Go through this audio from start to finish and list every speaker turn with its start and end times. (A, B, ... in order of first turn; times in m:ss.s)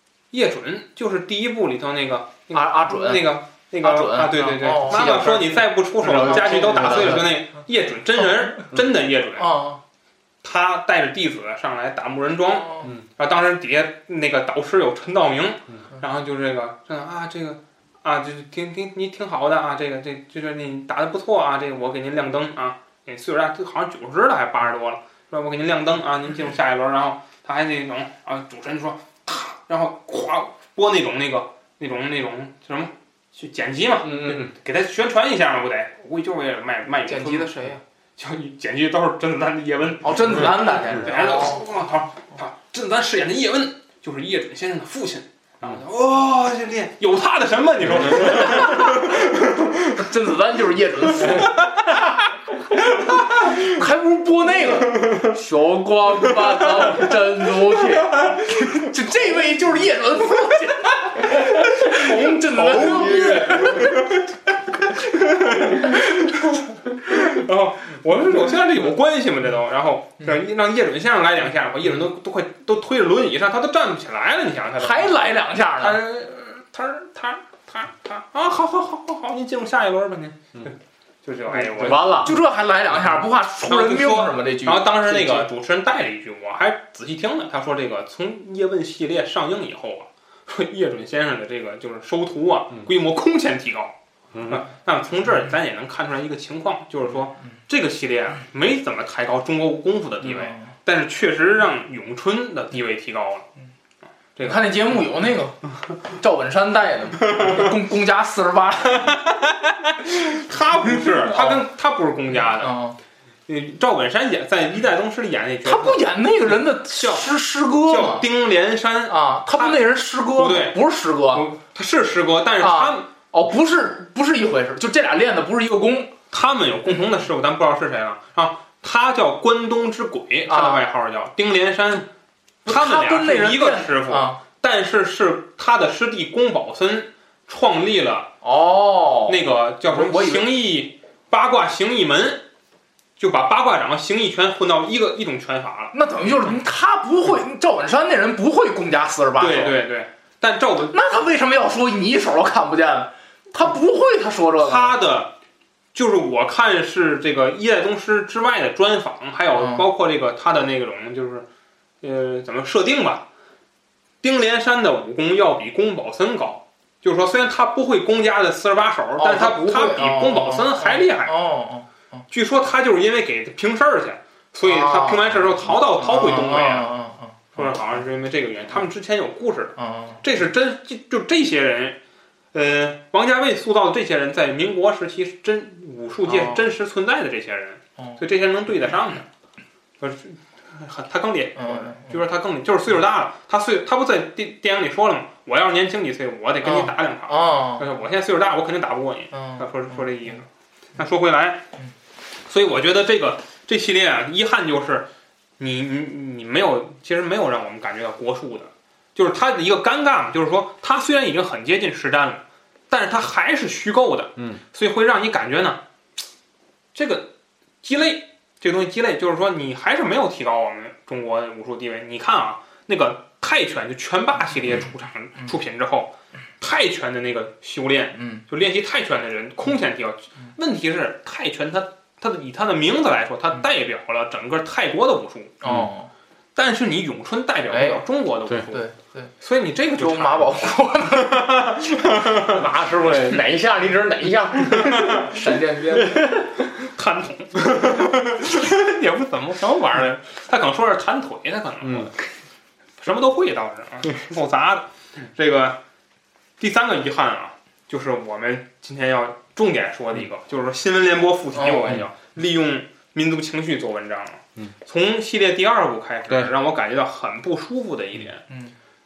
0:00.3-0:09.6 A
0:02.5-0:03.3 B
0:03.8-0:05.6 B
0:06.0-0:07.3 C
0:06.2-0:07.2 B
0:09.4-0:09.8 B
0:10.4-0:50.0 A
0:12.6-0:12.9 B
0:34.0-0:34.5 C
0:37.0-0:37.8 B
0:40.0-0:41.6 B
0:48.2-0:49.1 B
0:49.8-1:04.2 B
0:51.2-0:51.6 A
0:55.0-0:55.3 A
1:01.2-1:04.3 A
1:04.8-1:15.1 A
1:05.0-1:06.2 B
1:14.8-1:16.0 B
1:15.8-1:20.7 A
1:21.2-1:22.2 A
1:21.6-1:22.4 C
1:22.2-1:25.5 B
1:23.7-1:33.9 A
1:34.3-1:34.6 C
1:34.5-1:43.5 A
1:40.3-1:40.7 B
1:44.4-1:44.7 A
1:44.4-1:49.3 B
1:49.8-1:52.7 A
1:50.9-1:51.6 B
1:52.6-1:53.0 B
1:53.5-1:56.0 A
1:55.6-1:58.3 B
1:56.8-1:59.8 A
1:59.1-2:01.5 B
2:00.3-2:00.8 A
2:01.3-2:03.1 A
2:02.6-2:06.1 B
2:06.3-2:12.1 A
2:10.5-2:10.8 B
2:12.6-2:14.4 B
2:12.6-2:18.3 A
2:18.4-2:20.5 B
2:19.3-2:22.4 A
2:23.2-2:26.6 A
2:25.9-2:29.8 B
2:29.4-2:31.0 A
2:30.9-2:34.9 B
2:34.6-2:35.3 A
2:35.9-2:41.4 A
2:39.5-2:39.8 B
2:42.0-2:43.2 A
2:44.2-2:51.4 A
2:49.2-2:52.2 B
2:52.3-2:56.9 A
2:54.6-2:57.7 B
2:57.5-3:02.0 A
2:59.8-3:00.2 B
3:02.5-3:09.3 A
3:06.3-3:06.7 B
3:10.0-3:21.6 A
3:11.6-3:12.2 B
3:16.6-3:17.8 B
3:19.3-3:20.1 B
3:22.5-3:25.1 A
3:25.6-3:35.8 A
3:36.9-3:37.3 A
3:37.8-3:55.6 A
3:48.1-3:48.4 B
3:55.6-3:56.1 B
3:55.6-3:55.9 C
3:56.6-3:58.9 A
3:57.7-3:58.0 B
3:58.7-3:59.3 B
3:59.4-4:00.6 A
3:59.9-4:01.8 B
4:01.2-4:02.6 A
4:02.4-4:05.3 C
4:04.7-4:05.3 A
4:05.2-4:06.3 B
4:05.9-4:06.5 C
4:06.8-4:12.2 A
4:11.8-4:12.1 C
4:13.0-4:15.8 A
4:16.6-4:28.4 A
4:21.5-4:22.0 B
4:28.5-4:28.7 B